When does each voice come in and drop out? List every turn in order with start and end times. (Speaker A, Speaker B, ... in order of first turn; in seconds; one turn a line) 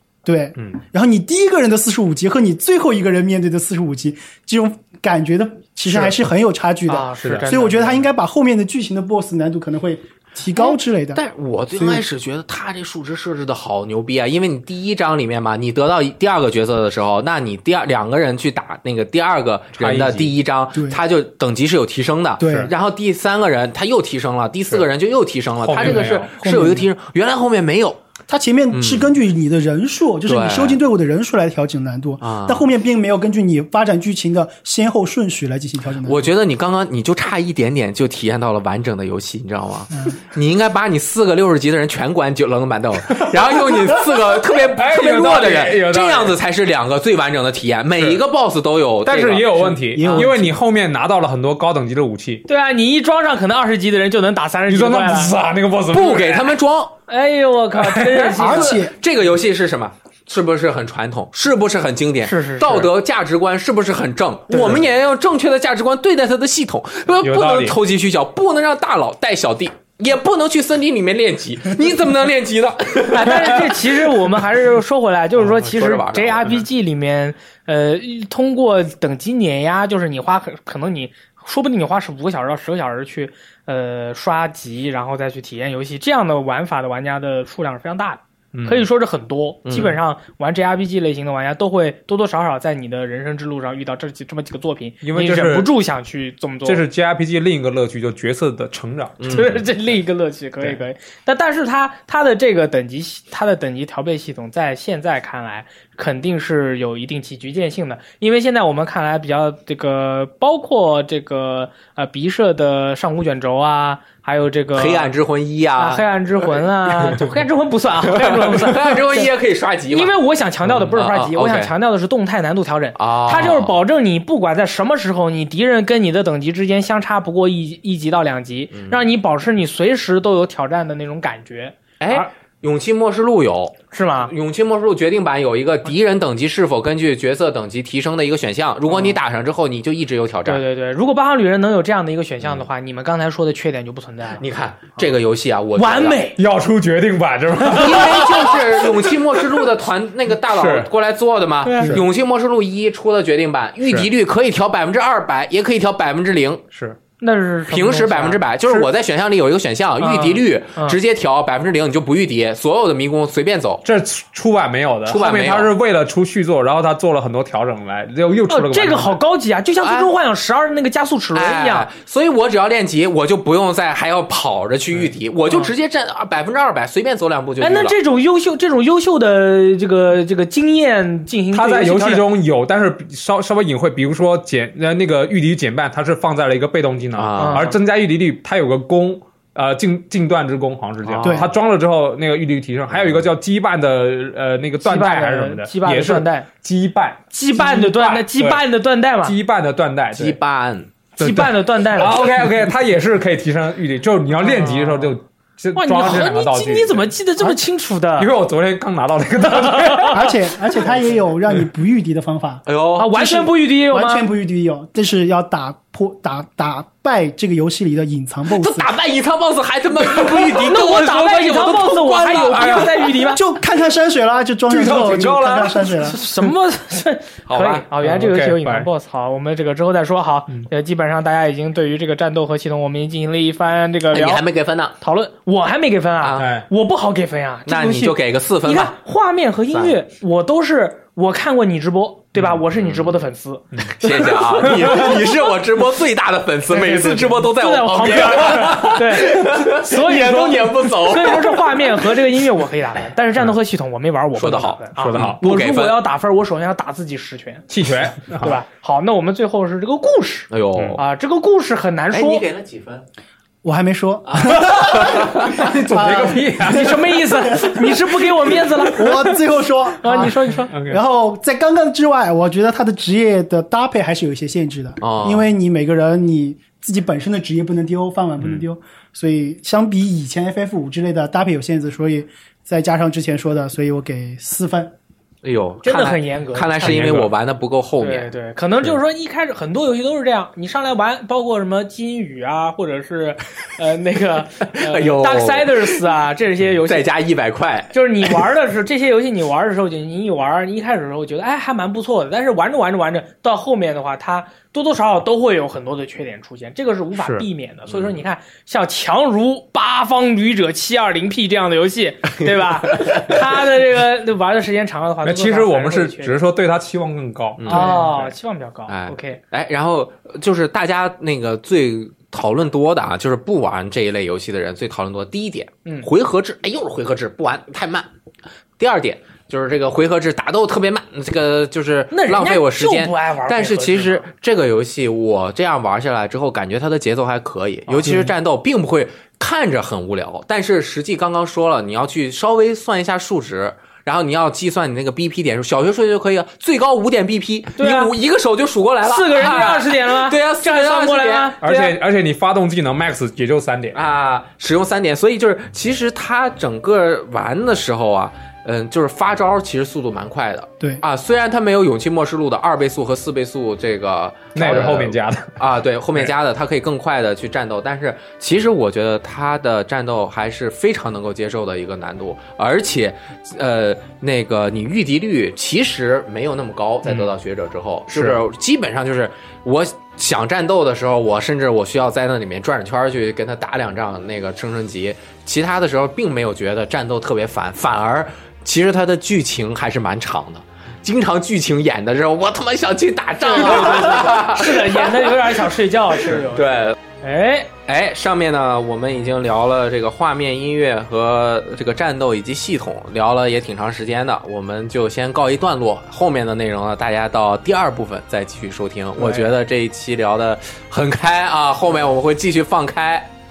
Speaker A: 0.2-11.2
Speaker B: 6.9-8.1
Speaker C: 7.2-7.5
Speaker D: 10.6-28.0
Speaker A: 11.8-12.0
Speaker C: 19.8-20.3
Speaker A: 20.7-21.0
Speaker A: 22.4-22.7
Speaker C: 25.6-26.3
Speaker A: 25.8-26.9
Speaker A: 28.3-36.3
Speaker D: 28.7-29.1
Speaker D: 30.3-30.8
Speaker D: 32.2-32.7
Speaker D: 36.0-50.3
Speaker C: 43.2-44.1
Speaker C: 44.7-46.4
Speaker C: 49.0-52.5
Speaker A: 49.6-50.6
Speaker B: 52.5-55.3
Speaker C: 54.7-56.5
Speaker D: 55.9-56.9
Speaker B: 57.1-58.9
Speaker C: 57.8-58.4
Speaker A: 58.4-59.0
Speaker D: 58.4-74.1
Speaker B: 62.2-62.9
Speaker C: 64.5-64.8
Speaker C: 67.2-67.8
Speaker B: 73.1-96.8
Speaker D: 75.4-76.6
Speaker C: 88.5-88.9
Speaker D: 89.7-90.0
Speaker C: 95.0-95.7
Speaker C: 96.7-99.5
Speaker D: 99.2-99.6
Speaker B: 99.3-115.1
Speaker D: 114.8-116.6
Speaker B: 115.8-119.3
Speaker D: 118.1-120.2
Speaker B: 119.9-132.3
Speaker D: 120.7-121.7
Speaker D: 123.0-123.8
Speaker D: 128.7-129.1
Speaker D: 132.0-140.6
Speaker B: 133.9-134.3
Speaker B: 138.9-139.2
Speaker B: 140.5-144.4
Speaker D: 144.4-146.2
Speaker B: 145.8-146.4
Speaker C: 146.4-149.1
Speaker D: 147.7-156.6
Speaker C: 150.5-150.9
Speaker B: 151.6-152.0
Speaker C: 156.7-157.0
Speaker B: 157.2-158.4
Speaker D: 157.7-163.8
Speaker B: 160.0-161.0
Speaker C: 163.8-169.2
Speaker D: 165.1-165.7
Speaker B: 168.5-171.9
Speaker D: 169.8-170.1
Speaker D: 171.3-178.0
Speaker B: 177.6-182.3
Speaker C: 181.5-198.6
Speaker D: 187.2-187.8
Speaker B: 187.4-187.8
Speaker D: 191.0-191.5
Speaker A: 191.2-191.5
Speaker D: 192.9-193.3
Speaker B: 194.8-196.5
Speaker B: 197.3-199.3
Speaker C: 199.2-200.4
Speaker D: 200.2-200.9
Speaker C: 201.2-207.6
Speaker B: 201.2-202.5
Speaker B: 204.4-205.1
Speaker B: 205.8-208.3
Speaker C: 208.2-210.3
Speaker B: 209.5-210.2
Speaker A: 210.1-218.9
Speaker D: 212.7-213.2
Speaker B: 213.0-214.3
Speaker D: 218.6-222.9
Speaker B: 220.5-223.4
Speaker C: 222.4-223.2
Speaker A: 223.3-226.2
Speaker C: 224.7-226.2
Speaker B: 226.0-234.4
Speaker D: 227.5-227.9
Speaker C: 228.0-228.9
Speaker D: 234.1-235.0
Speaker B: 235.0-243.6
Speaker D: 236.2-236.5
Speaker C: 236.4-236.7
Speaker D: 237.7-238.9
Speaker D: 239.7-240.0
Speaker D: 242.8-243.2
Speaker C: 243.7-245.2
Speaker D: 244.0-252.1
Speaker B: 244.7-245.3
Speaker B: 246.7-257.7
Speaker D: 254.4-256.0
Speaker C: 255.0-255.4
Speaker C: 257.7-258.6
Speaker B: 258.3-262.4
Speaker D: 260.5-261.0
Speaker C: 260.8-261.0
Speaker D: 262.1-263.0
Speaker A: 263.6-268.2
Speaker C: 264.4-267.4
Speaker D: 264.4-265.7
Speaker B: 266.6-269.3
Speaker A: 268.8-284.9
Speaker B: 270.0-270.7
Speaker C: 270.7-271.0
Speaker D: 275.0-275.5
Speaker C: 278.4-278.7
Speaker D: 285.4-288.3
Speaker B: 285.8-287.1
Speaker C: 286.8-287.3
Speaker B: 288.0-297.1
Speaker D: 294.8-296.0
Speaker D: 296.9-298.4
Speaker B: 297.9-316.4
Speaker C: 307.2-307.5
Speaker D: 307.9-308.2
Speaker D: 312.9-313.4
Speaker C: 315.2-318.3
Speaker D: 317.6-318.1
Speaker B: 317.7-319.4
Speaker D: 318.9-328.1
Speaker D: 328.8-351.6
Speaker B: 332.1-334.2
Speaker B: 337.9-338.3
Speaker B: 347.8-348.1
Speaker B: 349.0-352.0
Speaker C: 351.6-354.0
Speaker D: 353.9-395.4
Speaker C: 364.6-365.5
Speaker C: 377.1-377.3
Speaker C: 378.1-378.4
Speaker B: 393.4-397.7
Speaker D: 396.2-397.0
Speaker D: 397.9-413.3
Speaker B: 409.2-409.5